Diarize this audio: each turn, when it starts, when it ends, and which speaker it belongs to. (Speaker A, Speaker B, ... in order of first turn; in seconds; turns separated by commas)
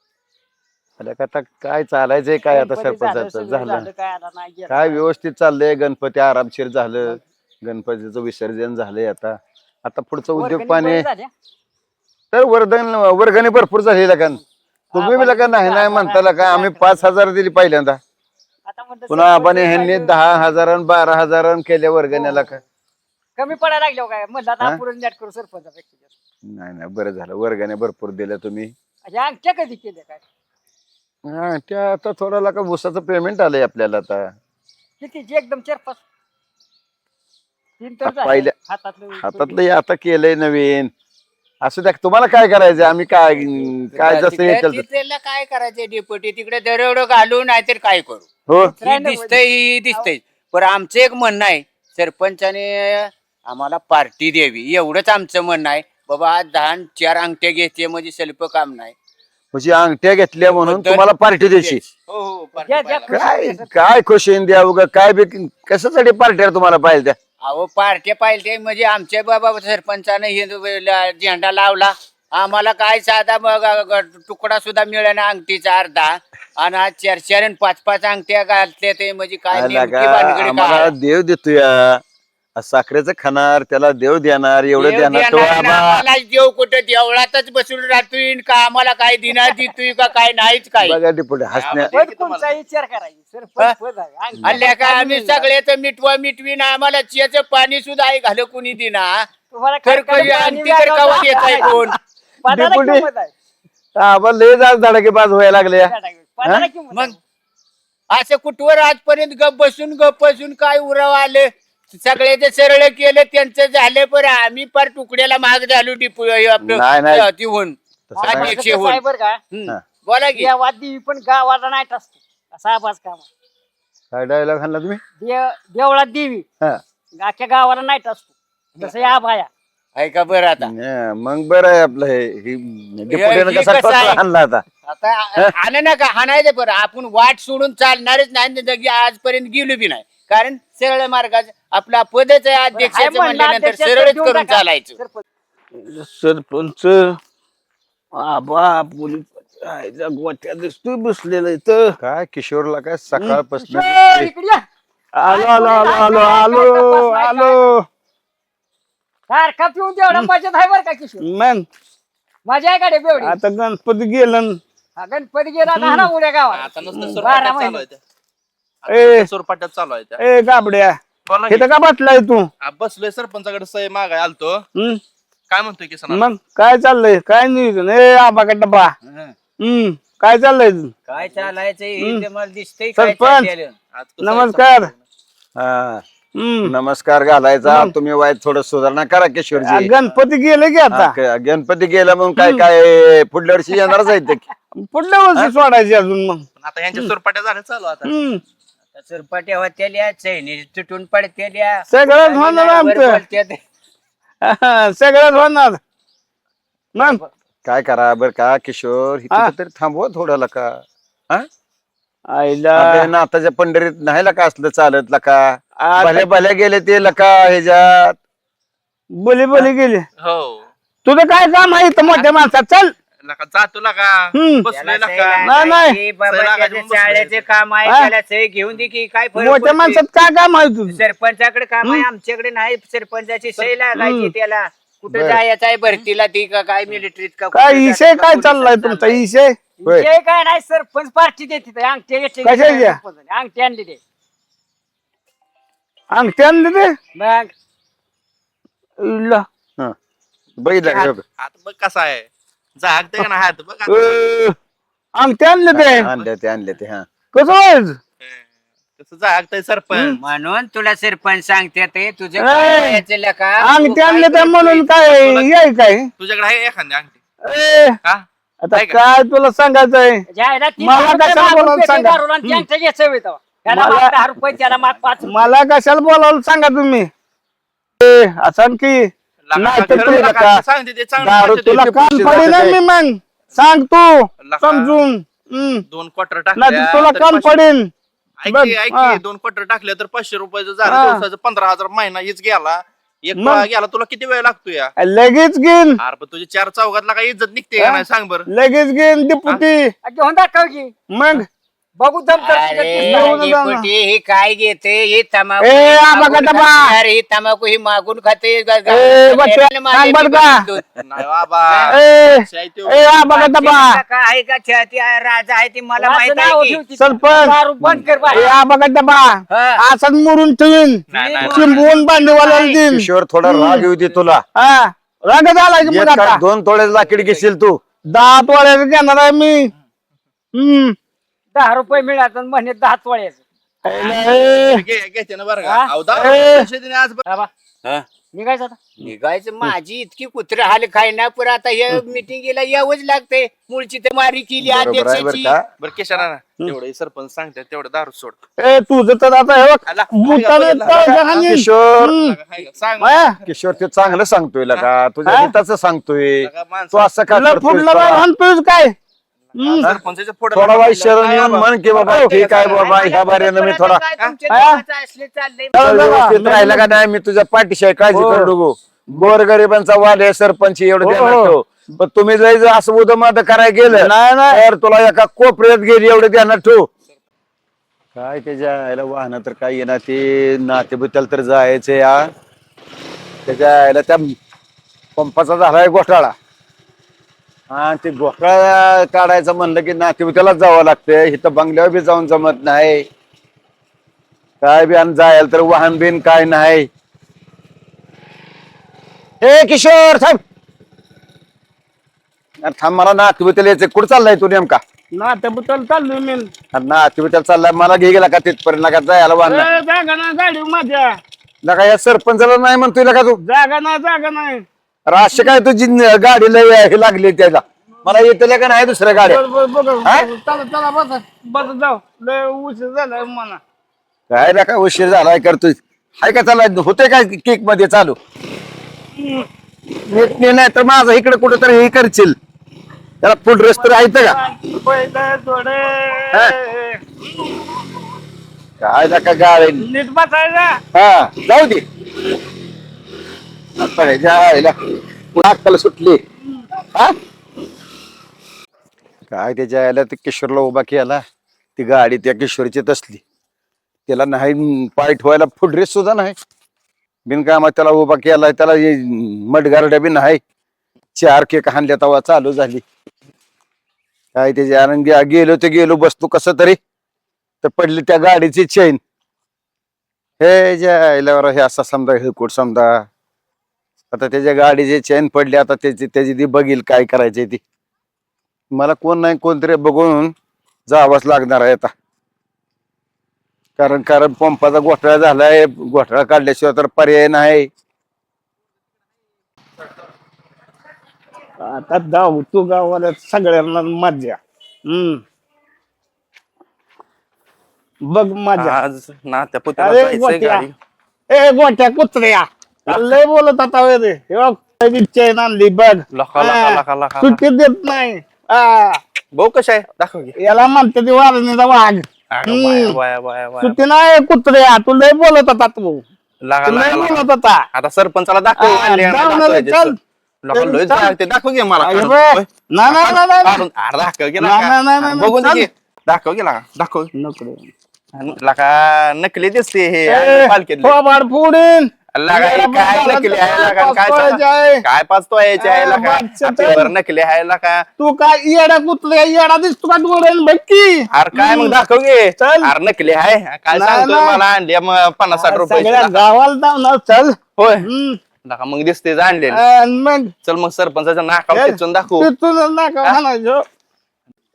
Speaker A: 1.0-3.9, Speaker B: 2.5-5.0, Speaker A: 4.7-11.1, Speaker B: 10.4-11.3, Speaker A: 12.3-14.4, Speaker B: 14.9-17.0, Speaker A: 14.9-18.0, Speaker B: 18.7-20.1, Speaker A: 19.1-22.6, Speaker B: 22.1-22.5, Speaker B: 23.4-26.1, Speaker A: 26.5-28.7, Speaker B: 29.1-30.2, Speaker A: 31.3-34.3, Speaker B: 35.0-36.0, Speaker B: 37.8-39.6, Speaker A: 38.0-38.5, Speaker A: 39.1-40.9, Speaker A: 41.6-44.9, Speaker C: 43.9-48.3, Speaker A: 48.5-48.7, Speaker B: 48.6-50.0, Speaker C: 48.8-58.9, Speaker A: 59.5-61.8, Speaker C: 60.4-61.8, Speaker D: 62.1-63.3, Speaker B: 62.6-63.7, Speaker A: 63.1-67.2, Speaker C: 67.4-80.9, Speaker A: 79.5-82.0, Speaker A: 82.6-86.0, Speaker C: 84.8-91.0, Speaker A: 90.8-91.9, Speaker D: 91.5-92.5, Speaker B: 91.7-95.5, Speaker C: 94.4-99.3, Speaker B: 99.5-101.8, Speaker C: 99.8-102.0, Speaker B: 102.4-103.3, Speaker A: 102.5-103.1, Speaker A: 104.0-106.7, Speaker B: 105.8-107.2, Speaker C: 108.1-120.5, Speaker A: 116.6-117.3, Speaker A: 118.1-118.6, Speaker B: 118.2-119.4, Speaker B: 120.3-123.3, Speaker A: 124.1-125.0, Speaker B: 125.2-126.5, Speaker B: 127.2-129.5, Speaker C: 130.0-130.7, Speaker A: 130.6-134.7, Speaker C: 133.1-134.2, Speaker C: 134.9-145.0, Speaker B: 142.7-145.2, Speaker E: 145.7-147.2, Speaker E: 148.1-152.0, Speaker A: 152.0-154.3, Speaker B: 153.6-154.6, Speaker E: 155.1-157.9, Speaker B: 155.2-157.6, Speaker B: 159.3-161.2, Speaker E: 161.2-161.7, Speaker B: 162.5-163.4, Speaker E: 163.2-164.6, Speaker B: 165.0-167.8, Speaker E: 165.7-166.1, Speaker D: 166.5-168.0, Speaker E: 166.9-167.2, Speaker D: 168.8-170.2, Speaker E: 168.9-169.3, Speaker E: 170.2-171.0, Speaker D: 171.3-171.7, Speaker E: 171.5-172.5, Speaker D: 172.6-174.6, Speaker E: 174.8-175.0, Speaker D: 175.5-176.3, Speaker E: 176.1-178.9, Speaker C: 179.1-179.3, Speaker E: 179.6-180.9, Speaker C: 181.1-183.8, Speaker E: 182.0-182.3, Speaker E: 183.0-183.5, Speaker D: 183.9-185.0, Speaker E: 184.2-184.9, Speaker A: 185.6-186.0, Speaker E: 186.4-186.7, Speaker A: 186.7-189.9, Speaker E: 187.7-187.9, Speaker E: 189.6-191.2, Speaker A: 190.9-194.4, Speaker E: 192.4-192.7, Speaker E: 194.7-197.1, Speaker D: 196.6-198.1, Speaker E: 198.0-198.4, Speaker C: 199.0-203.6, Speaker E: 201.9-203.2, Speaker E: 204.4-205.8, Speaker E: 206.9-207.2, Speaker A: 207.7-211.5, Speaker E: 212.3-213.1, Speaker A: 212.8-218.2, Speaker E: 215.8-216.3, Speaker E: 219.2-220.1, Speaker D: 220.2-220.7, Speaker E: 221.1-222.9, Speaker D: 223.2-225.5, Speaker E: 224.3-224.7, Speaker C: 224.7-230.0, Speaker E: 225.4-226.0, Speaker D: 226.3-227.5, Speaker E: 227.8-228.1, Speaker E: 229.4-231.0, Speaker C: 230.9-239.2, Speaker E: 233.9-234.3, Speaker A: 235.1-235.4, Speaker E: 237.5-239.6, Speaker B: 239.8-244.0, Speaker E: 242.4-243.0, Speaker E: 246.1-247.0, Speaker B: 247.2-247.5, Speaker E: 249.0-249.5, Speaker A: 250.6-251.2, Speaker D: 250.9-254.1, Speaker E: 253.9-254.6, Speaker E: 255.2-256.1, Speaker A: 255.7-257.1, Speaker E: 257.3-258.0, Speaker D: 259.0-260.2, Speaker C: 259.9-264.9, Speaker E: 262.4-263.0, Speaker E: 263.6-266.1, Speaker D: 265.1-265.5, Speaker D: 266.2-267.2, Speaker E: 267.4-268.0, Speaker D: 268.0-269.0, Speaker E: 268.6-270.2, Speaker B: 270.3-275.4, Speaker E: 270.8-272.6, Speaker E: 273.7-274.1, Speaker E: 275.3-277.1, Speaker E: 278.0-280.3, Speaker D: 279.5-282.5, Speaker A: 279.8-280.6, Speaker A: 281.2-282.8, Speaker E: 281.7-285.8, Speaker D: 284.4-285.0, Speaker D: 285.9-287.6, Speaker E: 286.6-287.9, Speaker D: 288.4-294.9, Speaker E: 288.5-289.2, Speaker E: 290.9-291.2, Speaker E: 293.4-293.7, Speaker E: 295.0-296.0, Speaker D: 296.0-298.4, Speaker E: 297.8-299.9, Speaker B: 300.0-300.9, Speaker E: 301.1-301.5, Speaker B: 302.0-303.3, Speaker C: 302.4-310.9, Speaker E: 302.9-303.9, Speaker E: 305.6-307.0, Speaker E: 308.9-310.7, Speaker D: 311.0-313.1, Speaker C: 311.7-312.0, Speaker E: 311.9-314.0, Speaker C: 313.3-316.8, Speaker B: 316.0-318.6, Speaker E: 317.0-317.6, Speaker E: 318.3-323.9, Speaker C: 319.5-319.8, Speaker D: 321.1-321.9, Speaker C: 321.2-321.8, Speaker A: 322.9-324.4, Speaker E: 324.6-326.4, Speaker A: 325.9-327.8, Speaker D: 327.1-327.4, Speaker E: 328.1-329.7, Speaker E: 330.5-331.0, Speaker B: 331.6-333.4, Speaker A: 333.9-334.6, Speaker E: 333.9-334.7, Speaker D: 334.0-337.2, Speaker B: 335.6-335.9, Speaker E: 336.3-336.5, Speaker B: 338.3-338.8, Speaker C: 339.0-345.6, Speaker A: 344.6-345.6, Speaker D: 345.8-348.4, Speaker E: 348.6-352.4, Speaker D: 349.9-353.3, Speaker A: 351.0-352.1, Speaker E: 353.0-353.4, Speaker A: 353.5-358.2, Speaker E: 355.2-355.5, Speaker D: 356.4-357.1, Speaker E: 357.3-359.0, Speaker E: 359.6-359.9, Speaker D: 359.6-362.9, Speaker A: 360.5-364.0, Speaker E: 362.1-362.4, Speaker C: 362.4-366.0, Speaker E: 364.5-364.8, Speaker E: 365.7-366.9, Speaker A: 365.8-376.9, Speaker E: 368.1-368.5, Speaker E: 371.0-371.6, Speaker E: 373.9-374.6, Speaker A: 378.1-382.3, Speaker A: 383.5-384.4, Speaker A: 385.2-386.3, Speaker A: 387.7-393.1, Speaker A: 394.6-396.9, Speaker A: 399.4-400.4, Speaker A: 402.6-404.8, Speaker E: 405.1-406.5, Speaker A: 406.7-409.7, Speaker E: 409.4-411.2, Speaker A: 411.6-413.4, Speaker E: 413.4-414.6, Speaker A: 415.1-419.4, Speaker E: 419.1-423.6, Speaker A: 424.3-428.2, Speaker E: 429.1-429.5, Speaker A: 430.1-432.4, Speaker A: 433.2-434.4, Speaker E: 433.7-437.6, Speaker A: 438.8-439.9, Speaker E: 439.8-440.8, Speaker A: 440.9-441.8, Speaker A: 443.8-444.7, Speaker A: 445.3-446.2, Speaker A: 449.3-451.2, Speaker A: 451.8-453.2, Speaker A: 454.1-456.4, Speaker A: 457.3-460.4, Speaker A: 461.2-462.8, Speaker A: 464.4-466.8, Speaker A: 467.6-469.0, Speaker A: 470.4-473.1, Speaker A: 474.1-477.6, Speaker A: 478.7-480.3, Speaker A: 480.9-481.9, Speaker A: 483.8-487.7, Speaker E: 491.6-495.2, Speaker E: 498.0-498.8, Speaker D: 498.6-500.7, Speaker E: 499.8-500.7, Speaker E: 501.3-509.0, Speaker D: 506.1-507.4, Speaker D: 509.3-510.3, Speaker E: 510.4-513.0, Speaker D: 512.3-513.8, Speaker E: 513.6-516.0, Speaker D: 516.5-527.1, Speaker E: 516.6-517.7, Speaker E: 518.6-520.0, Speaker E: 520.5-521.1, Speaker E: 521.8-523.6, Speaker E: 524.4-525.7, Speaker E: 527.1-527.7, Speaker D: 528.2-531.0, Speaker E: 530.1-534.8, Speaker D: 532.1-537.9, Speaker E: 535.6-536.9, Speaker E: 538.0-541.8, Speaker D: 541.1-546.2, Speaker E: 542.4-542.7, Speaker E: 543.7-544.4, Speaker E: 545.3-548.2, Speaker D: 547.6-547.9, Speaker D: 548.4-549.6, Speaker E: 549.5-550.3, Speaker D: 550.4-552.3, Speaker E: 551.5-553.7